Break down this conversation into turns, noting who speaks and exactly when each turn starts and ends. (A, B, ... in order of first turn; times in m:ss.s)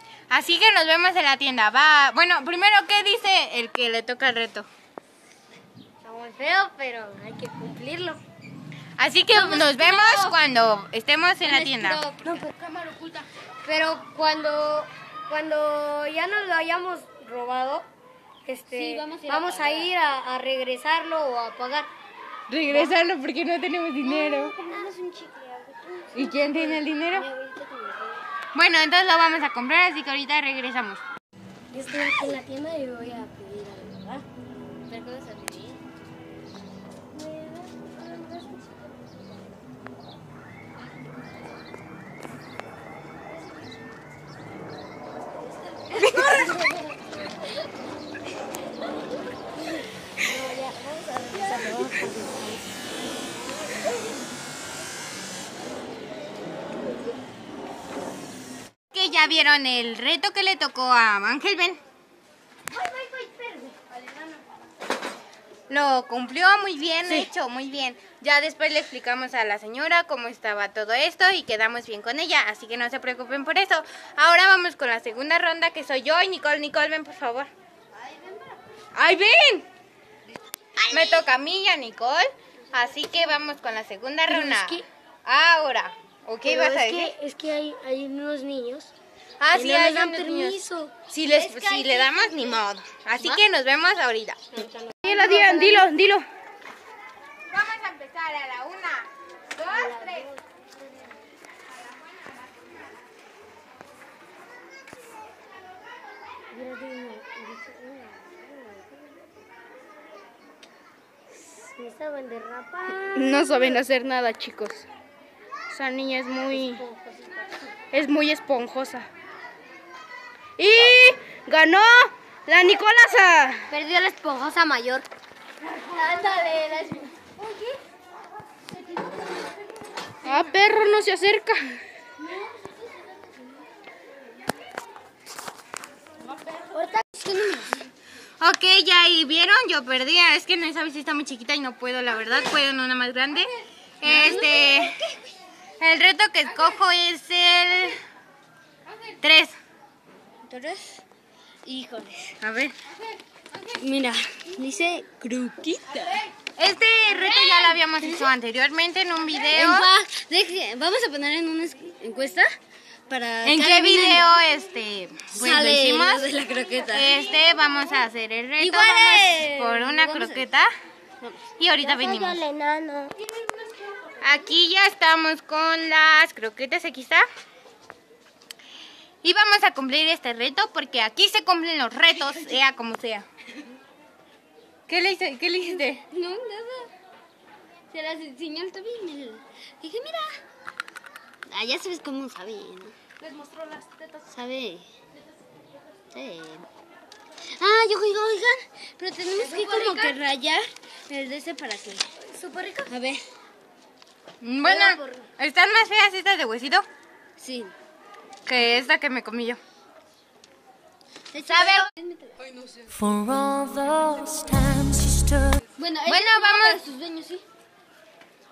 0:00.3-0:04.7 A
0:06.0-0:08.2 B
0:09.0-0:12.0 A
0:09.3-0:10.4 C
0:11.4-0:12.3 C
0:12.2-0:13.3 D
0:13.6-0:17.9 B
0:18.4-0:21.9 B
0:18.7-0:19.9 C
0:22.5-0:24.6 A
0:24.0-0:28.2 C
0:26.1-0:27.3 A
0:28.6-0:31.0 A
0:31.7-0:34.2 B
0:34.9-0:35.8 C
0:37.2-0:38.7 B
0:46.0-0:46.9 B
0:50.2-0:52.8 B
0:58.9-1:01.8 A
1:02.7-1:03.7 B
1:05.7-1:17.5 A
1:17.9-1:18.6 C
1:19.0-1:19.7 A
1:20.8-1:21.2 C
1:20.9-1:27.1 A
1:24.3-1:24.8 B
1:26.4-1:28.9 B
1:29.4-1:30.6 A
1:29.5-1:30.9 B
1:31.1-1:34.4 A
1:31.2-1:32.6 C
1:34.6-1:35.9 B
1:35.0-1:36.3 D
1:37.5-1:40.3 A
1:39.6-1:40.5 B
1:46.5-1:49.3 B
1:51.3-1:53.8 B
1:53.1-1:54.9 D
1:55.7-1:56.8 D
1:56.5-1:57.5 B
1:57.9-1:59.1 D
2:00.6-2:03.7 D
2:03.7-2:05.1 B
2:05.9-2:07.1 C
2:10.2-2:11.8 D
2:16.7-2:17.8 C
2:18.4-2:25.0 A
2:24.0-2:25.3 C
2:25.8-2:28.0 A
2:29.2-2:29.6 A
2:30.5-2:31.0 C
2:31.6-2:32.4 C
2:32.4-2:32.8 A
2:33.7-2:36.3 C
2:36.4-2:39.9 A
2:37.1-2:38.3 C
2:39.5-2:42.6 C
2:43.1-2:44.3 C
2:43.4-2:46.3 A
2:45.3-2:47.4 C
2:46.9-2:50.7 A
2:48.6-2:50.5 C
2:51.6-2:52.4 A
2:51.8-2:53.2 B
2:54.2-2:57.3 A
2:59.2-3:03.3 A
3:04.9-3:06.0 A
3:05.8-3:06.9 C
3:07.9-3:10.4 C
3:11.5-3:12.9 C
3:13.2-3:14.3 D
3:14.3-3:14.9 C
3:16.1-3:16.7 C
3:17.5-3:22.1 C
3:19.4-3:20.2 B
3:22.2-3:23.0 B
3:22.9-3:23.2 C
3:24.4-3:26.9 A
3:24.6-3:25.3 B
3:27.4-3:27.7 C
3:28.5-3:29.6 A
3:31.3-3:32.5 C
3:31.5-3:31.9 A
3:33.0-3:35.5 E
3:33.2-3:33.9 C
3:35.8-3:37.4 C
3:36.1-3:36.8 A